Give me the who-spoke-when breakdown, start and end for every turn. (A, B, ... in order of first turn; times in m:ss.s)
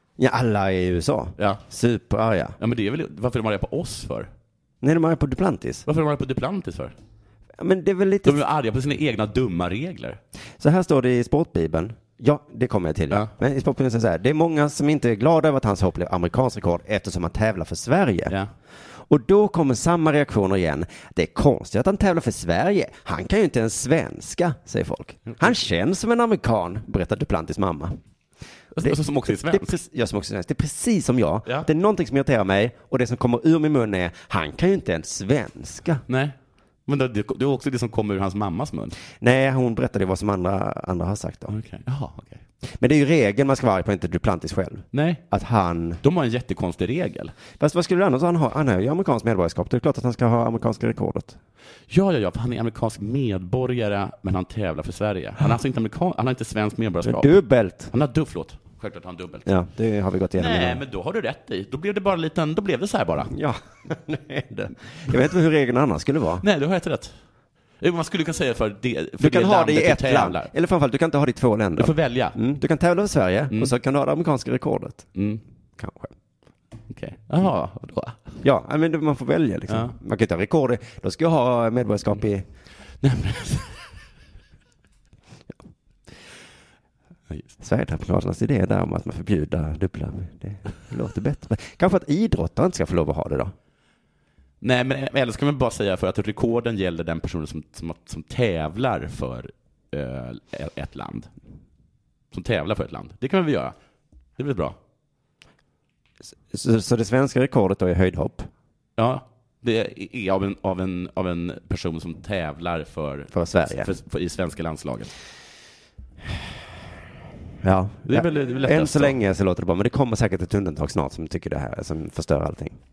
0:00.2-0:02.6 A
0:01.4-0:01.6 B
0:02.6-0:04.3 B
0:04.8-0:05.9 A
0:05.9-0:06.9 B
0:07.6-0:08.4 A
0:08.2-0:10.2 B
0:10.6-0:18.4 A
0:19.1-0:28.0 A
0:25.3-0:25.6 B
0:28.7-0:29.8 B
0:28.8-0:36.0 A
0:36.1-0:39.0 B
0:39.2-0:41.5 A
0:41.5-0:42.4 B
0:42.8-0:46.0 A
0:44.9-0:45.2 B
0:46.0-0:47.4 B
0:47.6-0:51.4 A
0:51.9-0:57.4 B
0:57.0-0:57.9 A
0:57.9-0:59.5 B
0:59.4-1:00.8 A
1:00.4-1:03.3 B
1:03.3-1:06.4 A
1:06.4-1:07.2 B
1:07.8-1:10.5 B
1:09.2-1:15.1 A
1:11.8-1:12.4 B
1:15.2-1:15.4 B
1:15.8-1:16.1 A
1:16.9-1:18.2 B
1:18.4-1:22.4 A
1:19.7-1:20.0 B
1:23.0-1:23.8 B
1:27.6-1:33.5 A
1:34.6-1:41.3 B
1:42.3-1:43.8 B
1:44.4-1:44.8 B
1:46.5-1:48.5 A
1:49.0-1:55.1 B
1:53.3-1:53.9 A
1:57.6-2:02.8 A
1:58.1-1:59.2 B